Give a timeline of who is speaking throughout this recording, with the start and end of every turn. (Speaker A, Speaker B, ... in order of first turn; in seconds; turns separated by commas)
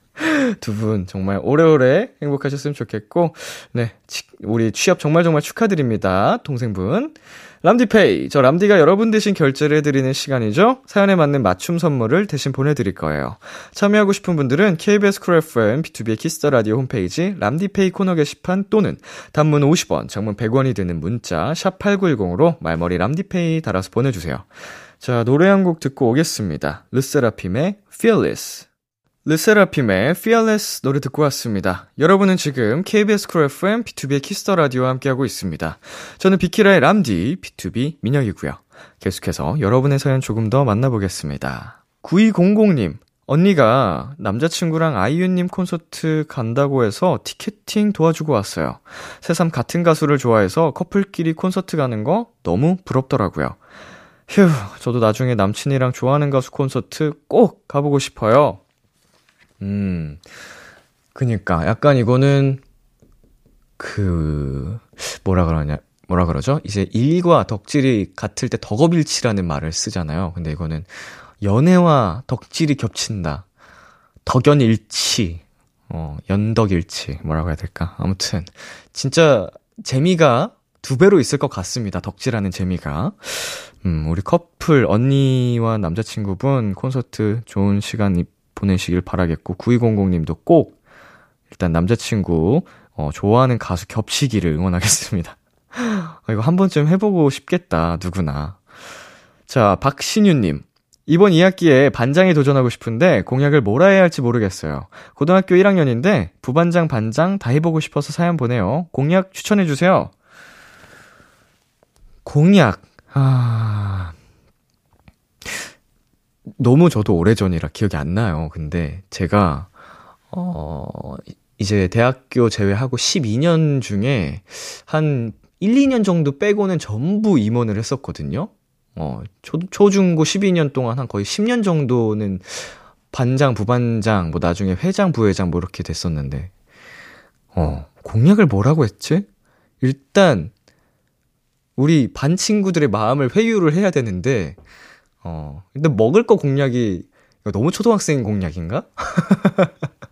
Speaker A: 0.2-24.5, Speaker A: 25.0-28.6, Speaker A: 29.2-53.6, Speaker A: 54.3-58.6, Speaker A: 59.6-60.2, Speaker A: 61.1-62.6, Speaker A: 63.8-73.5, Speaker A: 74.2-90.7, Speaker A: 91.5-98.6, Speaker A: 99.5-110.1, Speaker A: 112.2-114.1, Speaker A: 116.6-119.7, Speaker A: 120.3-136.5, Speaker A: 137.5-139.2, Speaker A: 139.8-140.5, Speaker A: 141.8-144.6, Speaker A: 145.2-149.8